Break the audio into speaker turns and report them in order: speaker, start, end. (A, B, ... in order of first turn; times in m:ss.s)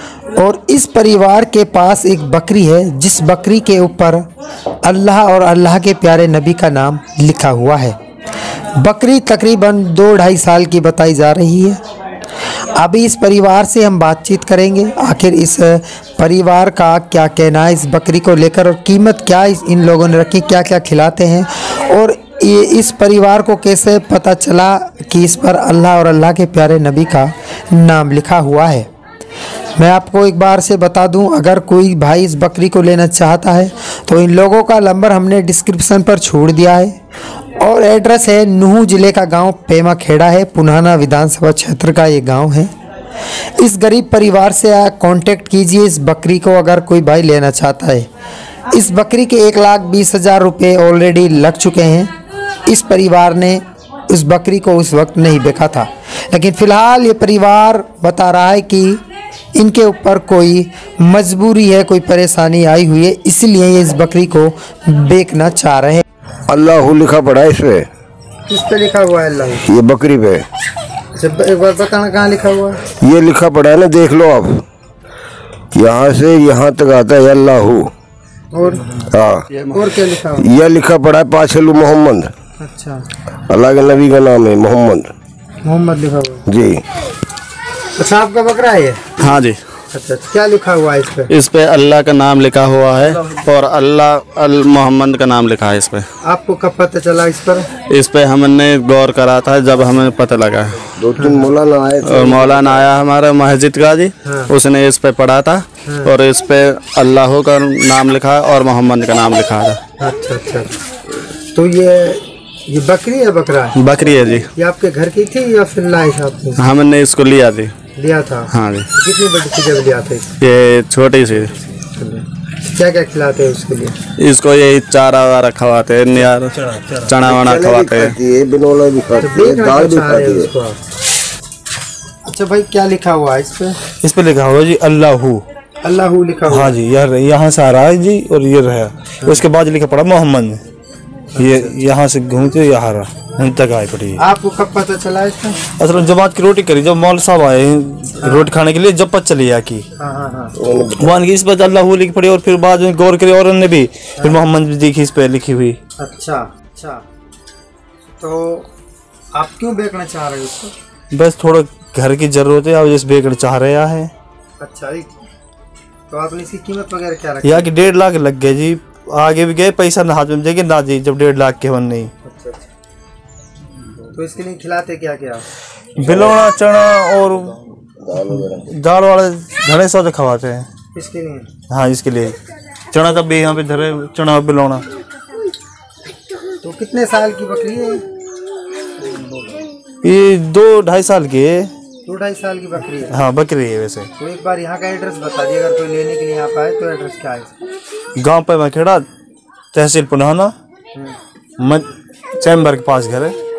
0:00.4-0:04.2 A
0:04.8-0:08.0 A
0:08.8-0:11.8 A
0:12.7-0:28.9 A
0:29.8-0:36.9 A
0:37.6-0:42.7 A
0:43.6-0:48.1 A
0:48.7-0:52.1 A
0:52.7-0:59.0 A
0:59.5-1:06.0 A
1:06.5-1:07.9 B
1:08.5-1:09.7 A
1:09.7-1:10.4 B
1:11.2-1:12.9 A
1:12.9-1:14.6 B
1:15.7-1:17.9 B
1:18.5-1:18.8 A
1:19.0-1:19.4 B
1:19.7-1:20.5 A
1:20.4-1:22.3 B
1:22.6-1:23.0 A
1:23.5-1:25.1 B
1:25.6-1:26.5 A
1:26.5-1:26.8 B
1:28.0-1:29.2 A
1:29.2-1:29.6 C
1:29.9-1:31.3 A
1:31.3-1:36.0 C
1:36.2-1:37.7 A
1:37.9-1:40.8 C
1:41.0-1:42.8 B
1:41.2-1:41.5 A
1:42.0-1:49.8 C
1:44.2-1:44.5 A
1:45.8-1:46.1 A
1:50.0-1:50.7 A
1:51.5-1:53.8 A
1:53.8-1:54.5 C
1:54.5-1:56.6 A
1:56.6-1:57.7 C
1:58.0-2:00.3 A
1:58.5-1:58.9 C
2:00.4-2:01.5 C
2:01.9-2:03.9 A
2:04.2-2:08.2 C
2:06.6-2:06.9 D
2:07.2-2:10.5 B
2:09.2-2:10.8 A
2:12.2-2:13.8 A
2:14.0-2:15.4 D
2:15.8-2:16.7 A
2:16.5-2:20.6 D
2:21.4-2:21.7 A
2:21.4-2:24.2 D
2:24.2-2:25.6 A
2:25.8-2:29.8 D
2:28.2-2:28.5 A
2:30.0-2:30.5 A
2:30.6-2:31.1 B
2:31.0-2:35.8 D
2:34.2-2:34.4 A
2:36.0-2:37.0 A
2:38.2-2:38.7 A
2:39.3-2:40.7 A
2:41.1-2:44.1 D
2:44.6-2:45.2 A
2:46.1-2:47.7 A
2:47.4-2:52.1 D
2:52.2-2:52.7 A
2:54.1-2:55.4 A
2:56.0-2:57.6 D
2:58.1-2:58.7 B
2:58.7-3:00.7 D
3:00.9-3:01.5 A
3:01.7-3:02.4 D
3:02.9-3:04.8 D
3:06.6-3:08.0 A
3:09.0-3:09.4 A
3:10.0-3:11.7 D
3:12.0-3:13.2 A
3:13.1-3:14.1 D
3:14.2-3:17.5 A
3:18.2-3:19.0 D
3:19.7-3:20.5 D
3:21.6-3:21.9 D
3:22.4-3:23.4 D